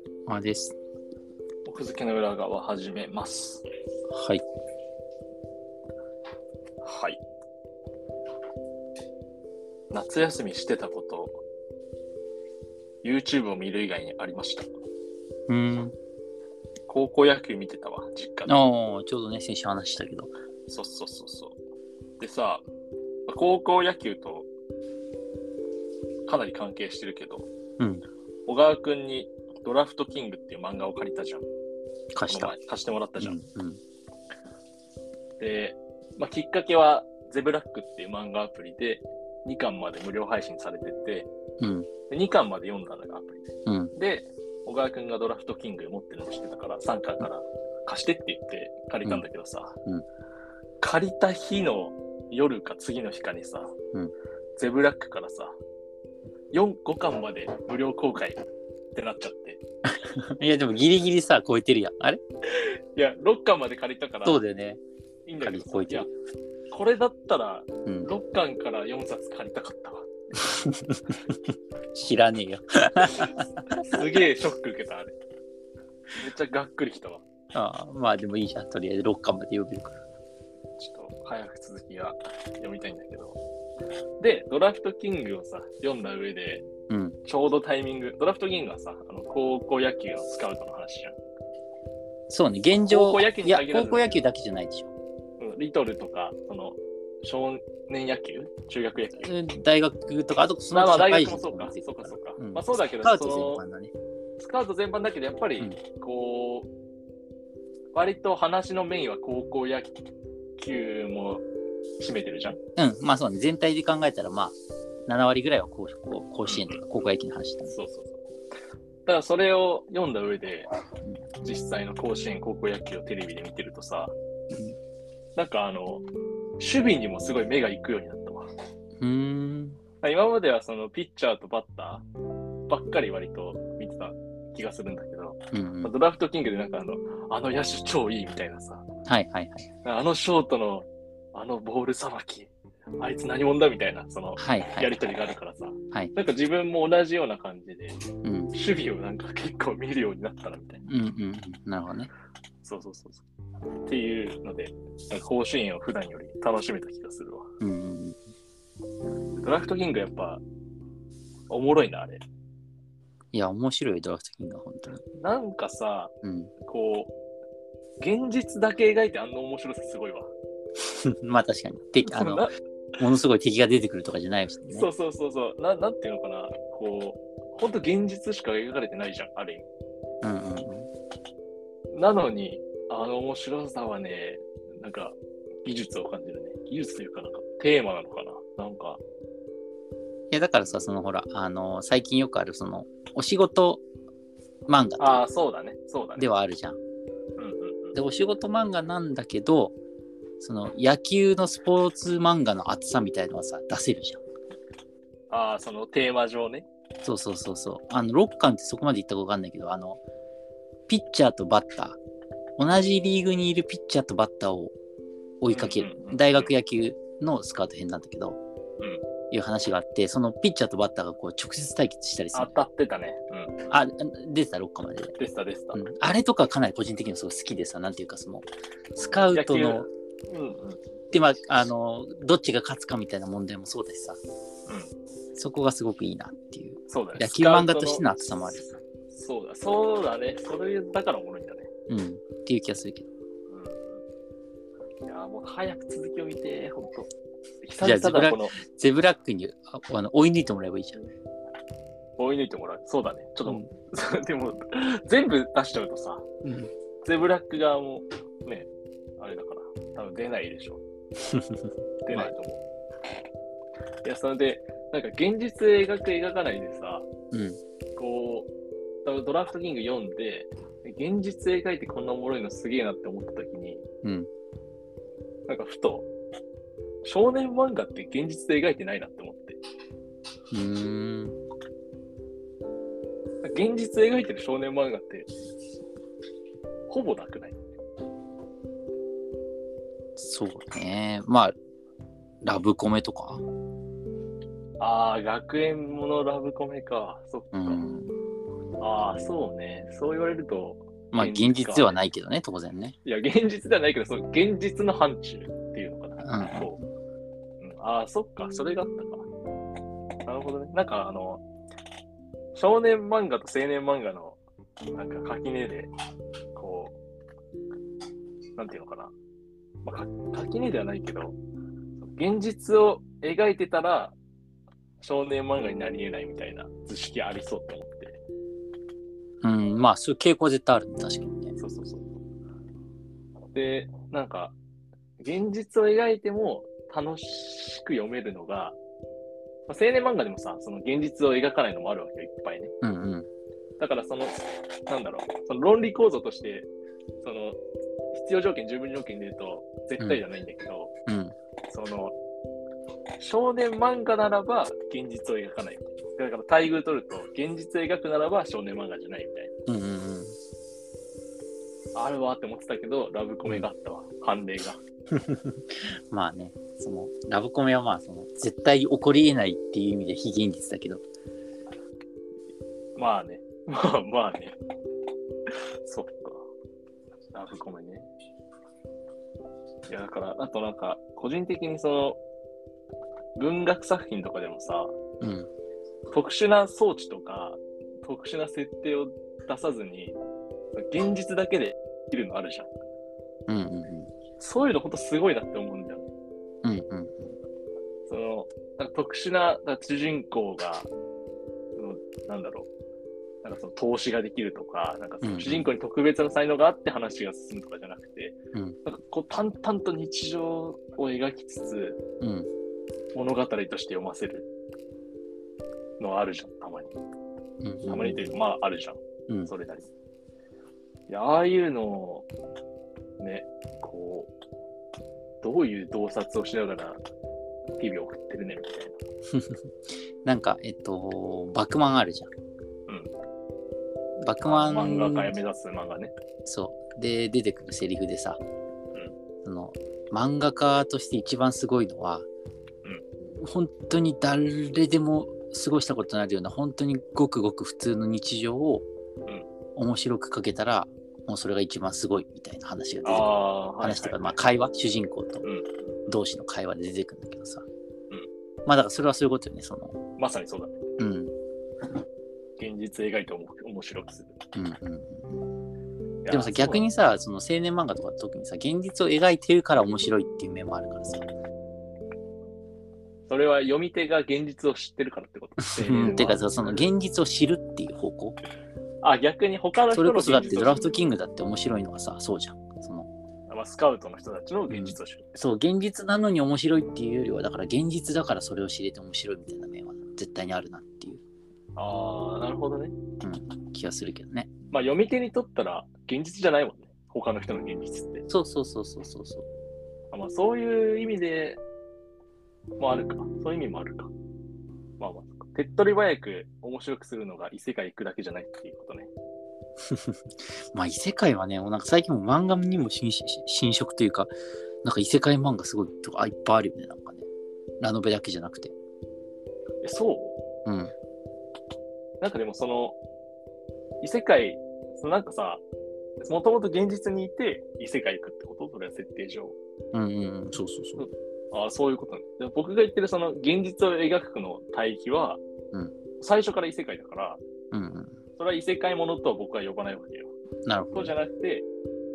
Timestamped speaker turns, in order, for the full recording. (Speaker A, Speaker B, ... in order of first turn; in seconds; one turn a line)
Speaker A: 0.3-0.7
Speaker B: 1.6-3.6
Speaker A: 4.1-4.4
Speaker B: 6.8-7.2
Speaker B: 9.9-11.4
Speaker B: 13.0-14.8
Speaker A: 15.5-15.9
Speaker B: 16.9-18.6
Speaker A: 18.5-20.3
Speaker B: 20.7-21.6
Speaker B: 22.2-22.6
Speaker B: 23.3-24.5
Speaker B: 26.2-27.5
Speaker A: 27.8-28.0
Speaker B: 28.5-31.5
Speaker A: 32.1-32.5
Speaker B: 32.3-33.4
Speaker A: 33.2-33.8
Speaker B: 35.4-41.3
Speaker A: 41.6-41.9
Speaker B: 42.1-49.8
Speaker A: 43.6-43.9
Speaker B: 50.8-53.7
Speaker B: 54.6-55.5
Speaker B: 56.5-58.4
Speaker B: 58.9-59.6
Speaker A: 59.9-62.2
Speaker B: 62.5-64.4
Speaker A: 64.2-64.8
Speaker B: 65.3-66.1
Speaker A: 65.4-66.1
Speaker B: 66.7-70.1
Speaker A: 67.8-68.1
Speaker A: 70.4-71.4
Speaker A: 71.9-74.0
Speaker B: 73.2-75.1
Speaker B: 76.2-77.2
Speaker A: 77.5-80.0
Speaker B: 80.8-83.4
Speaker B: 84.2-86.6
Speaker A: 86.9-87.2
Speaker B: 87.2-91.2
Speaker A: 92.3-94.9
Speaker B: 92.9-94.2
Speaker B: 95.4-99.3
Speaker A: 99.2-103.9
Speaker B: 100.7-103.6
Speaker B: 104.4-106.7
Speaker B: 107.9-110.0
Speaker B: 110.6-111.4
Speaker B: 112.0-112.6
Speaker A: 112.8-117.8
Speaker B: 116.5-116.8
Speaker B: 117.7-118.2
Speaker B: 119.0-120.7
Speaker B: 121.4-124.1
Speaker B: 125.3-126.0
Speaker B: 126.6-128.5
Speaker A: 129.0-129.8
Speaker B: 130.0-132.0
Speaker B: 132.7-138.8
Speaker A: 135.5-135.9
Speaker A: 139.1-139.7
Speaker B: 139.8-148.0
Speaker A: 144.4-145.0
Speaker A: 148.2-148.5
Speaker B: 148.5-150.9
Speaker A: 150.9-152.1
Speaker B: 152.6-153.2
Speaker B: 153.8-157.5
Speaker A: 157.6-158.2
Speaker B: 159.3-160.4
Speaker B: 161.5-162.2
Speaker A: 163.3-165.0
Speaker B: 165.1-166.1
Speaker A: 166.2-166.5
Speaker B: 166.6-167.1
Speaker B: 168.0-170.3
Speaker A: 170.8-172.4
Speaker B: 172.0-172.5
Speaker A: 173.0-174.9
Speaker B: 174.7-179.7
Speaker A: 180.2-180.9
Speaker B: 181.9-189.0
Speaker A: 190.3-193.8
Speaker A: 194.7-195.2
Speaker B: 195.0-196.3
Speaker A: 196.2-196.8
Speaker B: 197.4-197.9
Speaker A: 197.9-199.8
Speaker A: 200.4-204.2
Speaker B: 205.3-206.6
Speaker A: 207.0-210.0
Speaker A: 210.9-212.0
Speaker A: 212.6-214.7
Speaker A: 215.4-218.4
Speaker B: 215.5-216.5
Speaker A: 219.3-222.6
Speaker B: 222.3-223.7
Speaker A: 223.7-225.2
Speaker B: 225.2-225.8
Speaker A: 225.7-229.9
Speaker B: 229.3-230.8
Speaker A: 231.1-234.2
Speaker A: 235.3-238.6
Speaker B: 236.9-241.7
Speaker A: 241.9-243.1
Speaker B: 243.5-244.0
Speaker B: 245.1-247.1
Speaker B: 247.6-248.6
Speaker A: 247.8-251.0
Speaker B: 252.2-256.2
Speaker A: 253.4-253.7
Speaker A: 256.4-256.7
Speaker B: 257.0-260.8
Speaker B: 262.1-262.6
Speaker B: 264.0-267.1
Speaker A: 267.3-267.6
Speaker B: 268.0-268.5
Speaker B: 269.0-273.8
Speaker A: 274.0-274.3
Speaker B: 275.5-276.1
Speaker B: 277.0-279.6
Speaker A: 280.5-281.4
Speaker B: 283.4-285.3
Speaker B: 286.9-287.6
Speaker A: 290.2-291.5
Speaker A: 292.4-293.4
Speaker B: 294.8-297.8
Speaker A: 297.5-298.1
Speaker B: 298.8-302.0
Speaker A: 301.1-302.9
Speaker B: 303.0-306.8
Speaker A: 306.2-306.8
Speaker B: 307.6-309.3
Speaker B: 310.2-311.4
Speaker B: 312.5-314.4
Speaker B: 314.9-315.9
Speaker B: 316.6-317.0
Speaker B: 318.6-319.1
Speaker B: 319.8-321.4
Speaker B: 322.0-324.1
Speaker B: 325.0-328.2
Speaker A: 329.4-331.6
Speaker B: 331.6-332.2
Speaker B: 333.5-334.5
Speaker B: 335.2-338.8
Speaker B: 339.7-342.7
Speaker A: 342.8-343.3
Speaker B: 343.8-346.7
Speaker B: 347.2-347.6
Speaker B: 348.1-350.9
Speaker A: 351.1-351.3
Speaker B: 351.7-352.1
Speaker B: 353.2-359.5
Speaker A: 359.7-360.3
Speaker B: 361.9-364.8
Speaker A: 365.1-371.0
Speaker B: 372.9-374.6
Speaker B: 375.8-376.4
Speaker B: 377.3-378.1
Speaker B: 379.9-382.2
Speaker B: 383.4-384.9
Speaker A: 385.2-385.5
Speaker B: 386.1-390.2
Speaker B: 390.8-392.7
Speaker A: 393.5-394.1
Speaker B: 394.4-396.1
Speaker A: 396.6-397.4
Speaker B: 398.1-400.9
Speaker B: 401.8-402.7
Speaker B: 403.4-412.0
Speaker A: 405.2-405.7
Speaker A: 412.2-412.5
Speaker B: 413.1-414.5
Speaker B: 416.0-416.9
Speaker A: 417.6-418.4
Speaker B: 417.9-419.9
Speaker B: 421.1-422.2
Speaker B: 423.2-424.3
Speaker B: 425.4-427.0
Speaker B: 427.8-428.9
Speaker A: 429.3-429.6
Speaker A: 430.2-432.3
Speaker A: 434.2-435.3
Speaker B: 434.4-436.1
Speaker A: 436.4-438.4
Speaker A: 439.4-442.3
Speaker A: 443.4-448.8
Speaker A: 449.8-455.4
Speaker B: 453.0-454.4
Speaker B: 455.4-455.8
Speaker A: 456.1-457.6
Speaker A: 458.6-459.9
Speaker B: 460.2-460.7
Speaker A: 461.0-461.3
Speaker B: 462.6-464.3
Speaker A: 464.5-465.5
Speaker B: 466.2-466.9
Speaker A: 466.3-471.2
Speaker B: 473.3-476.9
Speaker A: 475.8-478.4
Speaker B: 479.0-480.9
Speaker A: 479.9-483.1
Speaker B: 483.5-485.2
Speaker A: 484.7-491.2
Speaker B: 491.8-492.9
Speaker A: 493.2-494.5
Speaker B: 494.7-498.2
Speaker A: 498.3-499.4
Speaker B: 500.1-501.6
Speaker B: 502.8-504.1
Speaker B: 505.0-509.1
Speaker A: 509.9-510.2
Speaker A: 510.7-514.3
Speaker A: 514.8-517.2
Speaker A: 517.8-518.7
Speaker B: 519.8-520.4
Speaker A: 520.6-520.9
Speaker B: 522.2-523.0
Speaker B: 524.0-525.6
Speaker B: 526.2-529.5
Speaker A: 529.9-531.0
Speaker B: 531.0-535.4
Speaker B: 536.2-537.4
Speaker A: 537.7-538.2
Speaker B: 538.4-540.3
Speaker A: 540.6-541.1
Speaker B: 540.9-541.6